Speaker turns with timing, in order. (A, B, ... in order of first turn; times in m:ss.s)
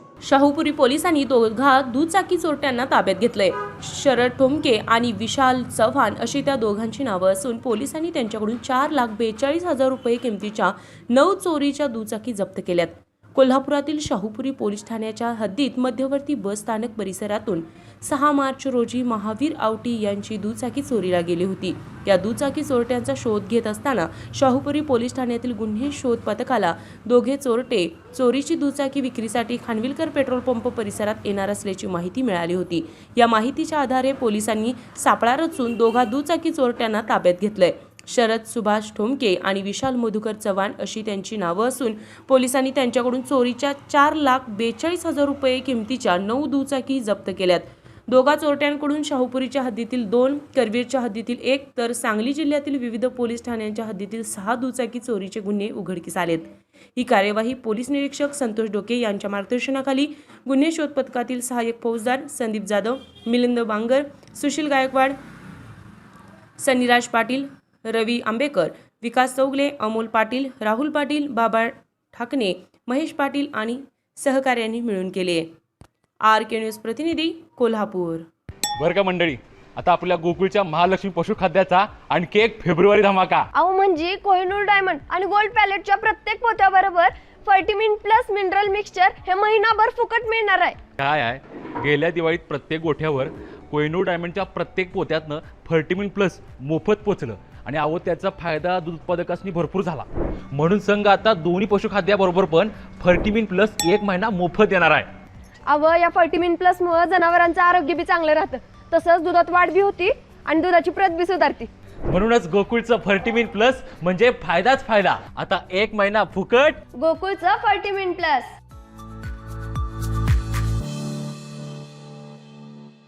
0:00.2-1:05.2 A
1:06.6-1:15.5 A
1:16.2-1:18.3 A
1:18.8-1:23.5 B
1:23.5-1:30.8 C
1:31.0-1:45.1 B
1:45.7-1:51.7 C
1:52.1-1:56.8 B
1:56.9-1:58.5 C